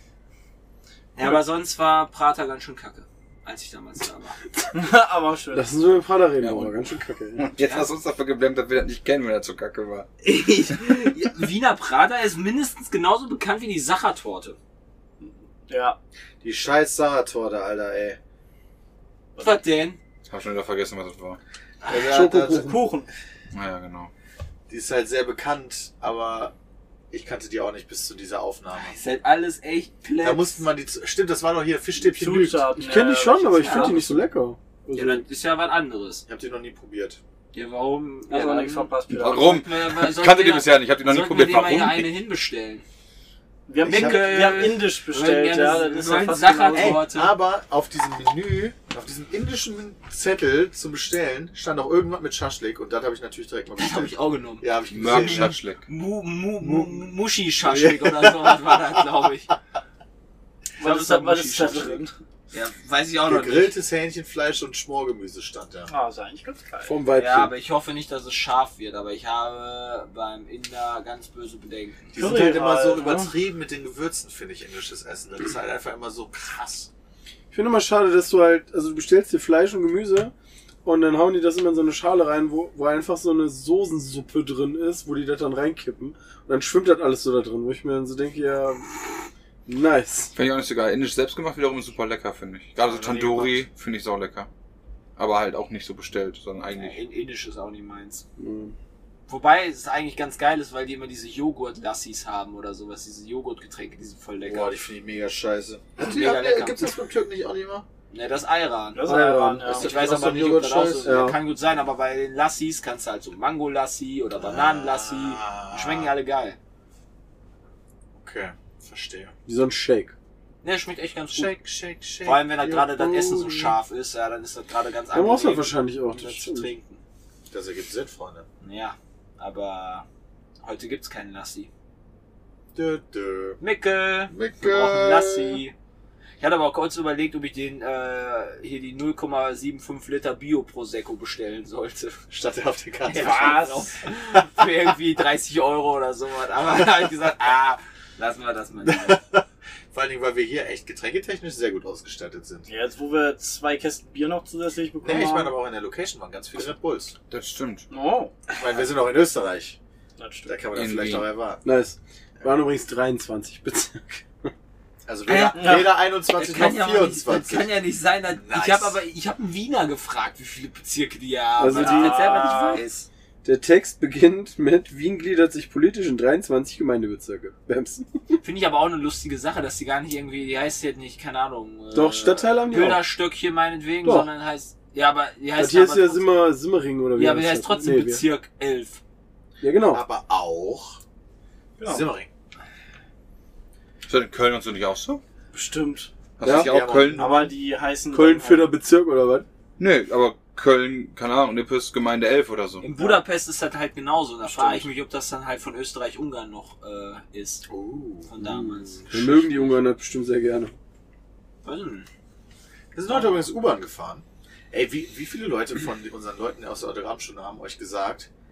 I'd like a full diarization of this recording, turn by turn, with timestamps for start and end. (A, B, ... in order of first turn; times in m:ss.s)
0:01.2-0:04.4 A
0:04.7-0:05.7 B
0:05.5-0:07.4 C
0:06.4-0:06.7 D
0:07.4-0:10.1 D
0:07.6-0:07.9 A
0:10.2-0:14.6 A
0:15.2-0:16.0 B
0:16.4-0:18.2 E
0:19.4-0:20.0 A
0:20.3-0:21.4 D
0:21.8-0:22.1 A
0:21.9-0:22.9 E
0:21.9-0:23.1 B
0:23.5-0:24.1 D
0:24.7-0:26.5 E
0:27.1-0:29.0 E
0:28.7-0:30.6 A
0:30.2-0:32.7 E
0:32.0-0:34.2 B
0:32.8-0:35.2 C
0:33.5-0:34.0 A
0:34.9-0:36.2 A
0:36.2-0:37.2 E
0:37.5-0:42.8 A
0:38.3-0:39.6 B
0:39.1-0:42.1 D
0:43.7-0:47.0 B
0:43.8-0:44.8 E
0:43.8-0:47.3 A
0:46.7-0:55.6 E
0:53.8-0:59.5 A
0:54.9-0:55.8 D
0:56.6-0:57.0 E
0:57.6-0:58.8 E
1:00.8-1:02.2 B
1:00.8-1:02.0 A
1:02.5-1:03.8 A
1:03.2-1:05.9 E
1:05.9-1:07.0 B
1:06.8-1:07.5 C
1:07.1-1:12.2 A
1:12.1-1:13.3 B
1:12.1-1:16.9 E
1:17.5-1:20.3 C
1:20.8-1:28.9 C
1:29.6-1:30.3 C
1:30.3-1:34.5 D
1:32.8-1:33.7 E
1:35.2-1:37.0 D
1:36.7-1:38.2 A
1:38.4-1:38.7 C
1:39.3-1:44.8 A
1:44.4-1:47.8 E
1:46.0-1:46.8 A
1:48.1-1:56.6 A
1:48.9-1:49.9 B
1:49.0-1:49.7 C
1:49.6-1:51.3 E
1:51.0-1:51.4 C
1:54.4-1:56.1 E
1:58.1-1:59.3 E
1:59.5-2:00.1 C
2:00.6-2:01.5 A
2:01.3-2:03.7 E
2:02.2-2:07.0 A
2:05.1-2:06.7 C
2:07.5-2:08.5 E
2:08.6-2:10.0 A
2:10.6-2:11.7 A
2:12.7-2:13.6 E
2:13.6-2:15.7 A
2:14.3-2:15.6 E
2:16.4-2:22.3 A
2:22.3-2:23.8 E
2:23.1-2:29.2 A
2:23.2-2:23.9 B
2:28.8-2:32.7 E
2:32.7-2:35.6 B
2:35.0-2:37.1 E
2:37.3-2:37.9 D
2:37.9-2:38.3 B
2:38.5-2:39.8 E
2:40.2-2:40.6 B
2:40.5-2:41.6 E
2:40.7-2:41.3 D
2:41.6-2:44.5 C
2:45.0-2:47.7 E
2:45.2-2:53.1 A
2:45.6-2:45.9 B
2:48.4-2:48.9 E
2:51.6-2:52.8 C
2:51.7-2:52.9 B
2:53.4-2:58.4 C
2:58.4-3:06.2 A
3:01.9-3:03.0 C
3:04.0-3:04.3 C
3:05.6-3:08.2 C
3:07.2-3:09.0 A
3:09.6-3:10.0 C
3:09.9-3:11.0 E
3:11.8-3:12.0 B
3:11.8-3:12.3 E
3:14.0-3:15.2 D
3:15.5-3:16.1 B
3:16.4-3:17.4 D
3:16.4-3:16.7 C
3:16.4-3:17.5 E
3:17.1-3:18.7 B
3:18.1-3:19.4 C
3:19.8-3:22.8 D
3:22.8-3:27.6 A
3:27.7-3:28.3 E
3:28.3-3:29.8 A
3:28.4-3:30.7 C
3:31.6-3:32.1 A
3:32.9-3:38.3 E